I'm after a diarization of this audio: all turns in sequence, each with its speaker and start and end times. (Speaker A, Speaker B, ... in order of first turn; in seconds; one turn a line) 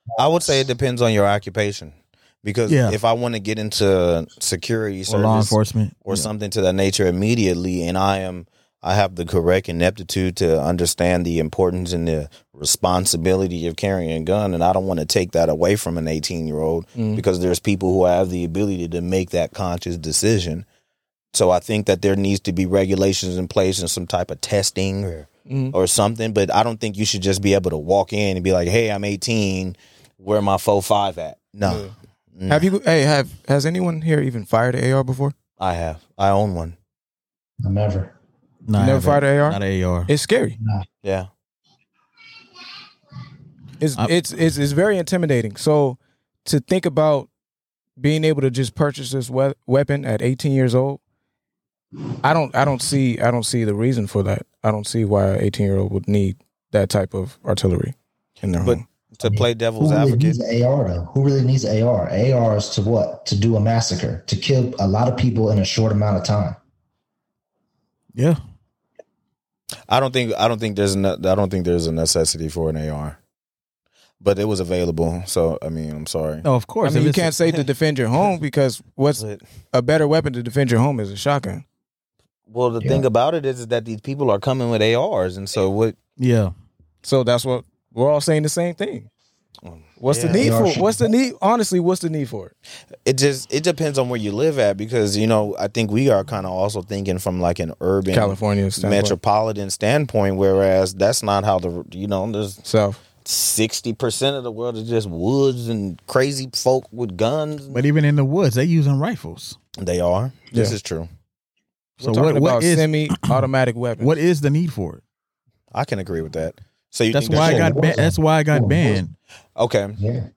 Speaker A: 0.2-20.7
Speaker B: 2.7-3.0
Speaker B: 5.1-6.3
Speaker C: 17.0-17.2
Speaker A: 21.3-32.7
Speaker C: 25.5-25.8
Speaker C: 31.6-31.9
Speaker C: 32.5-35.4
Speaker A: 35.6-36.8
Speaker D: 37.6-38.1
Speaker B: 38.7-40.1
Speaker C: 38.7-40.6
Speaker D: 40.6-40.9
Speaker A: 41.0-41.3
Speaker C: 43.8-47.3
Speaker C: 48.0-51.0
Speaker C: 52.2-58.8
Speaker A: 58.6-60.4
Speaker D: 59.2-66.6
Speaker B: 68.2-68.4
Speaker A: 69.9-73.2
Speaker A: 74.2-76.5
Speaker B: 76.4-77.3
Speaker C: 76.8-81.7
Speaker A: 79.2-79.4
Speaker A: 82.5-86.0
Speaker B: 86.2-86.5
Speaker C: 87.0-89.1
Speaker A: 89.6-90.5
Speaker C: 90.0-92.5
Speaker D: 90.3-91.1
Speaker A: 93.0-102.6
Speaker C: 98.1-99.2
Speaker C: 102.6-103.0
Speaker A: 103.2-107.8
Speaker B: 107.7-109.6
Speaker A: 109.8-111.1
Speaker B: 112.0-113.5
Speaker C: 112.0-114.2
Speaker B: 114.0-115.0
Speaker A: 115.7-117.9
Speaker B: 117.1-119.1
Speaker D: 117.3-119.1
Speaker A: 119.6-120.0
Speaker D: 120.0-120.3